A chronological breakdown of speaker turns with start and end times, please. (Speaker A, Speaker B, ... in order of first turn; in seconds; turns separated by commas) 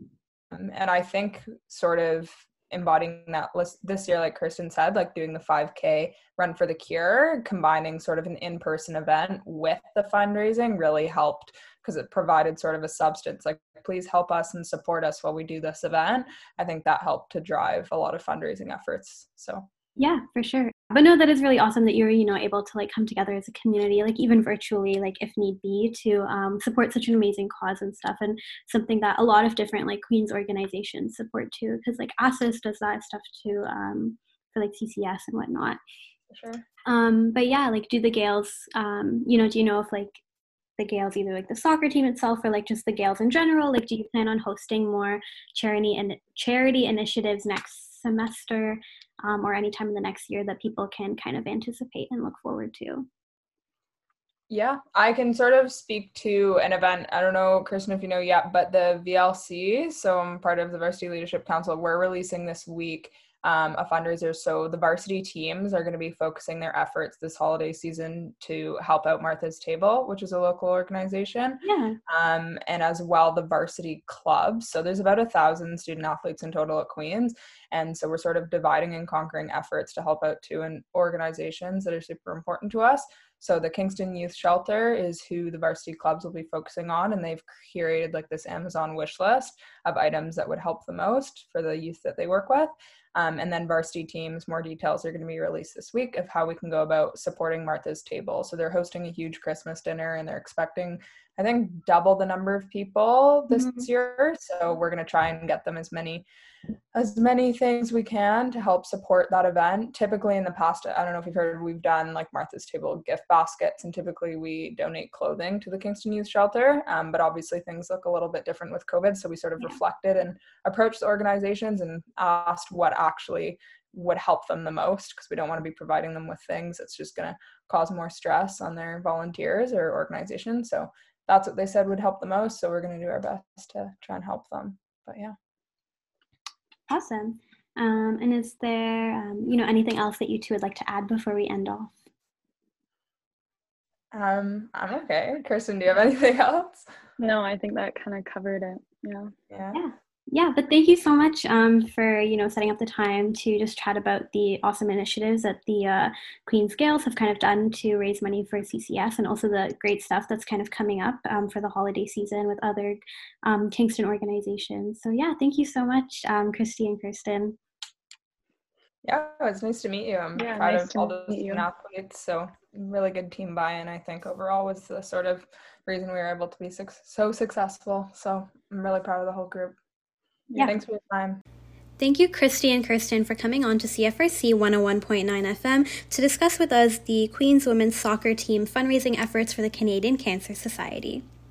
Speaker A: 0.5-19.7, Speaker B: 20.0-35.8, Speaker A: 36.3-36.6, Speaker B: 36.9-40.2, Speaker B: 40.8-53.1, Speaker A: 54.5-106.3, Speaker B: 71.6-72.0, Speaker A: 106.9-135.3, Speaker B: 136.9-142.0, Speaker A: 144.1-146.9, Speaker C: 147.2-149.3, Speaker A: 149.5-149.8, Speaker B: 149.7-167.6, Speaker A: 169.0-179.8, Speaker C: 170.4-171.7, Speaker A: 180.6-181.4, Speaker B: 182.0-191.2